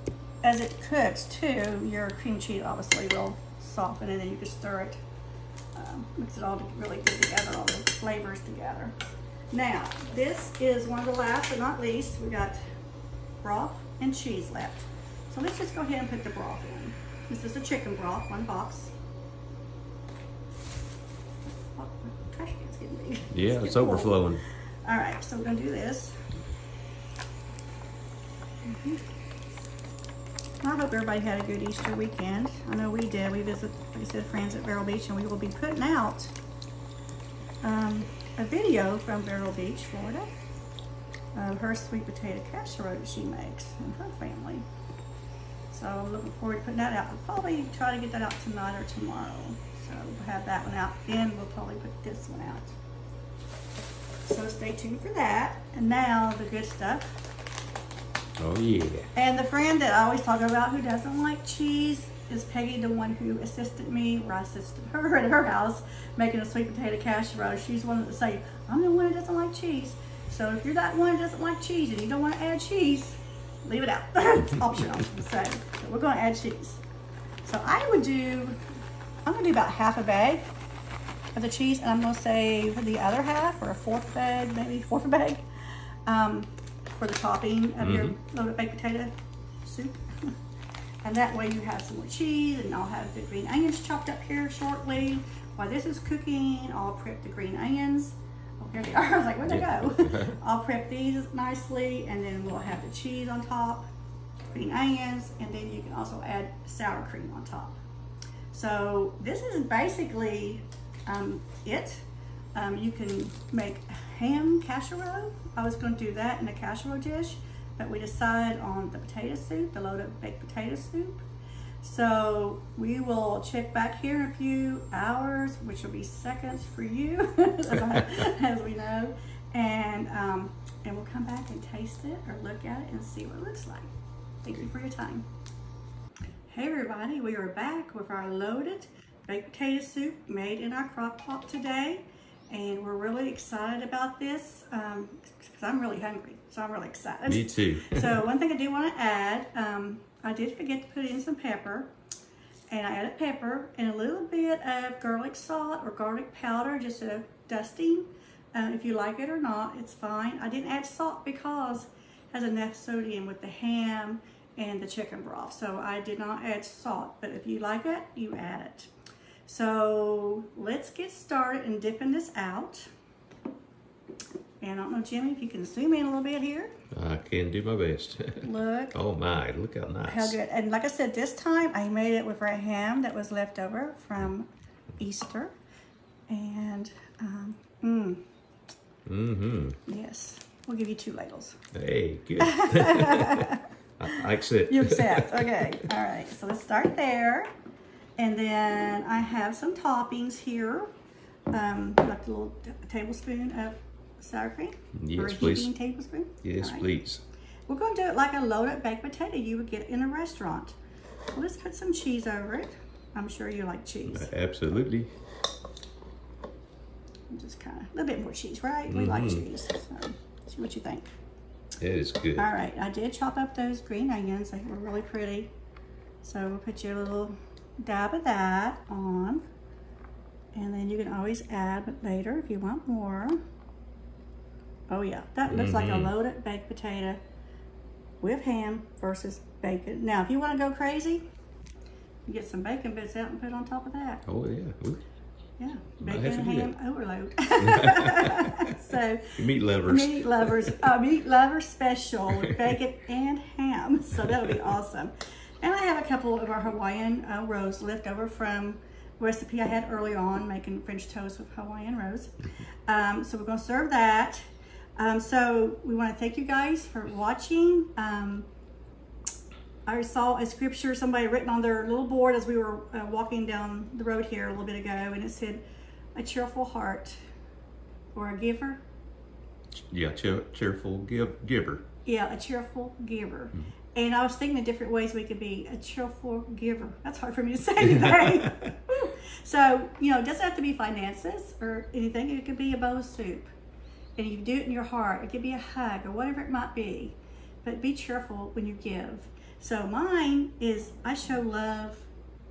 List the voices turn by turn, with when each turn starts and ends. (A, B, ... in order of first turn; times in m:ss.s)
0:00.4-0:05.0 A
0:05.8-0:09.0 A
0:09.5-0:12.6 A
0:13.4-0:18.9 A
0:21.7-0:26.2 A
0:23.3-0:24.4 B
0:28.6-0:29.0 A
0:30.6-0:36.3 A
0:37.6-0:40.3 A
0:41.4-0:44.7 A
0:45.7-0:52.8 A
0:54.2-0:57.2 A
0:58.4-0:59.1 B
0:59.2-1:16.8 A
1:17.4-1:18.6 A
1:19.2-1:20.5 A
1:21.4-1:25.5 A
1:26.1-1:30.4 A
1:27.8-1:28.2 B
1:31.0-1:43.9 A
1:39.5-1:40.4 B
1:44.5-1:47.8 A
1:48.5-2:01.2 A
2:01.8-2:13.9 A
2:14.4-2:15.3 A
2:16.5-2:31.9 A
2:27.3-2:28.2 B
2:32.7-2:48.9 A
2:49.5-2:52.9 A
2:54.6-2:56.7 A
2:56.9-3:00.4 B
2:58.4-2:59.0 A
3:00.1-3:05.5 A
3:06.3-3:08.2 A
3:09.1-3:09.8 B
3:09.9-3:11.6 A
3:11.7-3:15.9 B
3:12.4-3:17.5 A
3:18.2-3:20.9 A
3:21.5-3:26.9 A
3:25.0-3:25.7 B
3:26.4-3:27.2 B
3:27.7-3:30.8 A
3:31.3-3:34.3 A
3:34.1-3:35.1 B
3:37.3-3:41.1 A
3:38.9-3:39.5 B
3:41.8-3:42.5 B
3:42.4-3:45.5 A
3:46.2-3:49.4 A
3:50.6-3:53.4 A
3:54.9-3:57.2 A
3:55.5-3:56.1 B
3:58.2-4:01.2 A
4:02.3-4:04.2 A
4:04.3-4:05.0 B
4:05.6-4:22.3 A
4:06.0-4:06.7 B
4:07.6-4:08.8 B
4:09.3-4:10.8 B
4:12.4-4:12.7 B
4:22.9-4:24.4 A
4:25.0-4:28.5 A
4:29.9-4:35.6 A
4:36.2-4:37.2 A
4:38.2-4:38.8 A
4:39.9-4:41.8 B
4:42.0-4:53.5 A
4:47.9-4:48.7 B
4:54.2-5:02.1 A